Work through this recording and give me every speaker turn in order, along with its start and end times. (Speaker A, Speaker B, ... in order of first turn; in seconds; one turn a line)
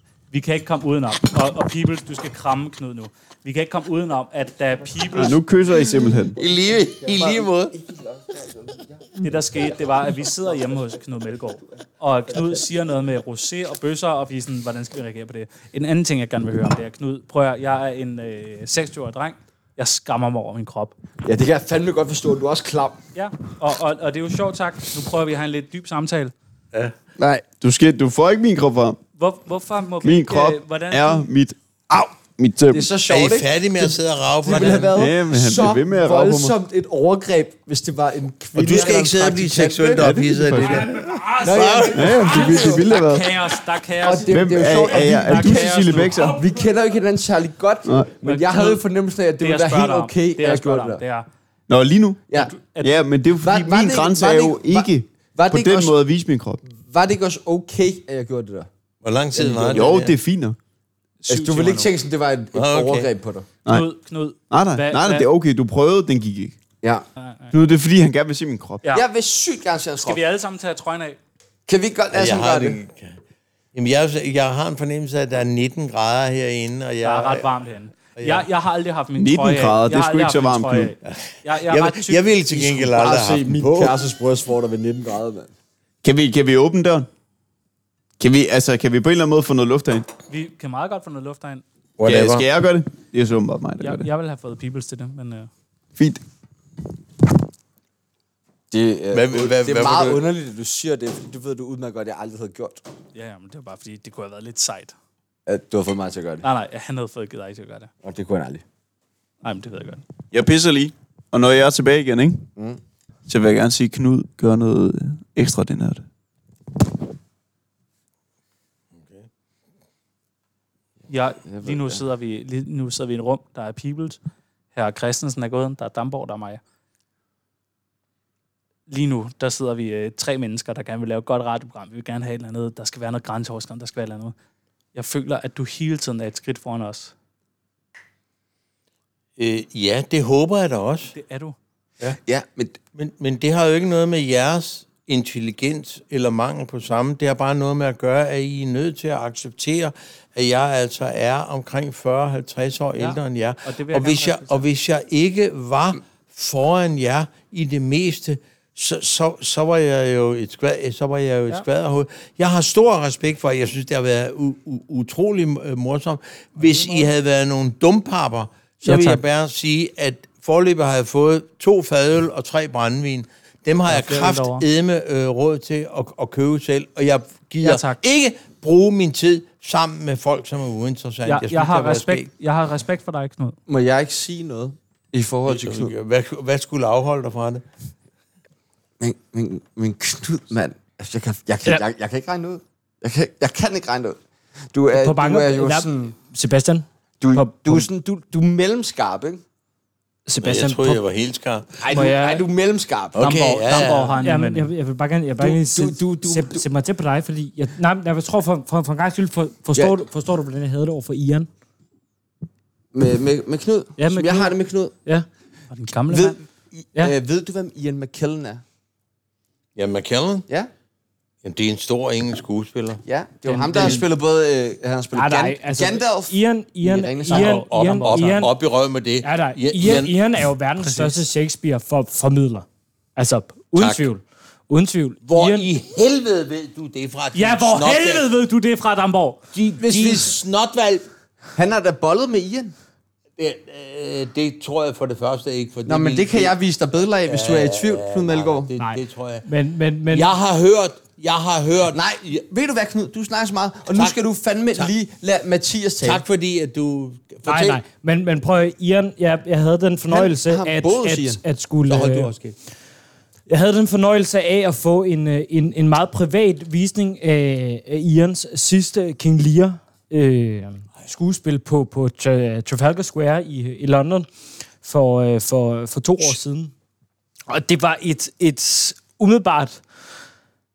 Speaker A: 0.3-5.4
Speaker B: 5.1-6.4
Speaker C: 6.4-7.8
Speaker D: 6.4-9.2
Speaker A: 9.2-20.9
Speaker D: 21.2-23.0
Speaker A: 23.1-26.3
Speaker D: 27.2-27.4
Speaker B: 27.6-29.0
Speaker A: 29.2-31.3
Speaker B: 30.0-32.9
Speaker D: 32.7-40.6
Speaker C: 33.1-35.0
Speaker B: 34.9-36.6
Speaker C: 38.5-42.4
Speaker B: 40.0-41.0
Speaker E: 41.1-41.4
Speaker D: 41.3-42.9
Speaker B: 41.9-43.3
Speaker A: 42.1-46.2
Speaker D: 44.0-51.0
Speaker B: 44.3-46.4
Speaker B: 47.9-48.1
Speaker A: 48.2-48.9
Speaker A: 49.4-51.3
Speaker B: 51.7-56.6
Speaker A: 52.3-53.1
Speaker D: 53.4-56.0
Speaker D: 56.7-58.7
Speaker C: 59.0-60.1
Speaker D: 59.4-60.0
Speaker B: 59.7-60.6
Speaker A: 61.2-61.9
Speaker D: 61.3-63.5
Speaker C: 62.5-63.1
Speaker A: 63.7-65.3
Speaker B: 64.5-66.6
Speaker A: 67.2-67.5
Speaker B: 67.5-68.8
Speaker D: 68.9-70.2
Speaker A: 70.0-71.2
Speaker D: 71.7-72.8
Speaker C: 72.1-73.2
Speaker C: 73.7-77.5
Speaker A: 77.0-82.2
Speaker C: 78.2-78.5
Speaker B: 79.2-80.9
Speaker C: 81.7-84.0
Speaker D: 82.5-85.5
Speaker B: 86.0-87.1
Speaker B: 88.2-90.1
Speaker A: 90.3-91.7
Speaker C: 92.0-92.5
Speaker B: 92.0-94.1
Speaker A: 93.8-95.5
Speaker B: 96.0-96.2
Speaker D: 98.7-102.8
Speaker C: 99.1-100.2
Speaker A: 103.1-105.0
Speaker D: 105.5-106.5
Speaker A: 106.4-107.9
Speaker D: 108.0-108.6
Speaker A: 109.4-110.0
Speaker B: 110.3-112.5
Speaker B: 113.3-116.1
Speaker C: 119.0-119.3
Speaker A: 121.1-124.2
Speaker D: 121.5-122.0
Speaker A: 124.7-126.6
Speaker A: 128.9-134.3
Speaker A: 134.9-137.1
Speaker C: 139.4-141.1
Speaker A: 141.1-141.6
Speaker D: 142.3-142.8
Speaker C: 143.0-182.3
Speaker A: 153.0-154.7
Speaker A: 166.6-167.1
Speaker A: 168.8-169.2
Speaker A: 173.9-174.7
Speaker A: 177.6-178.0
Speaker A: 181.3-183.6
Speaker D: 183.7-185.9
Speaker C: 185.5-187.6
Speaker D: 189.0-194.2
Speaker D: 194.7-196.2
Speaker E: 194.9-197.9
Speaker D: 197.2-199.4
Speaker E: 200.3-201.0
Speaker C: 200.4-202.1
Speaker D: 201.8-203.3
Speaker E: 201.9-202.4
Speaker C: 203.2-204.2
Speaker A: 203.2-204.7
Speaker E: 204.2-211.5
Speaker D: 205.4-206.7
Speaker D: 209.8-210.0
Speaker D: 212.9-215.0
Speaker E: 214.0-215.3
Speaker A: 215.7-216.4
Speaker D: 216.1-218.6
Speaker C: 219.8-220.5
Speaker C: 221.4-223.0
Speaker D: 223.0-227.6
Speaker E: 223.4-224.1
Speaker E: 225.1-228.5
Speaker A: 227.3-228.5
Speaker C: 227.3-230.2
Speaker E: 229.2-235.7
Speaker A: 230.8-231.2
Speaker C: 233.8-234.1
Speaker C: 235.2-238.3
Speaker A: 237.3-239.4
Speaker C: 239.5-241.1
Speaker D: 239.8-240.4
Speaker D: 241.6-242.7
Speaker C: 243.4-246.6
Speaker D: 245.9-248.7
Speaker C: 247.3-249.5
Speaker E: 248.8-250.3
Speaker C: 250.1-252.2
Speaker D: 251.9-256.2
Speaker C: 253.9-254.2
Speaker C: 256.0-257.8
Speaker E: 257.5-262.3
Speaker D: 260.1-261.4
Speaker C: 261.9-262.6
Speaker E: 263.5-274.3
Speaker E: 274.8-276.7
Speaker E: 277.5-279.8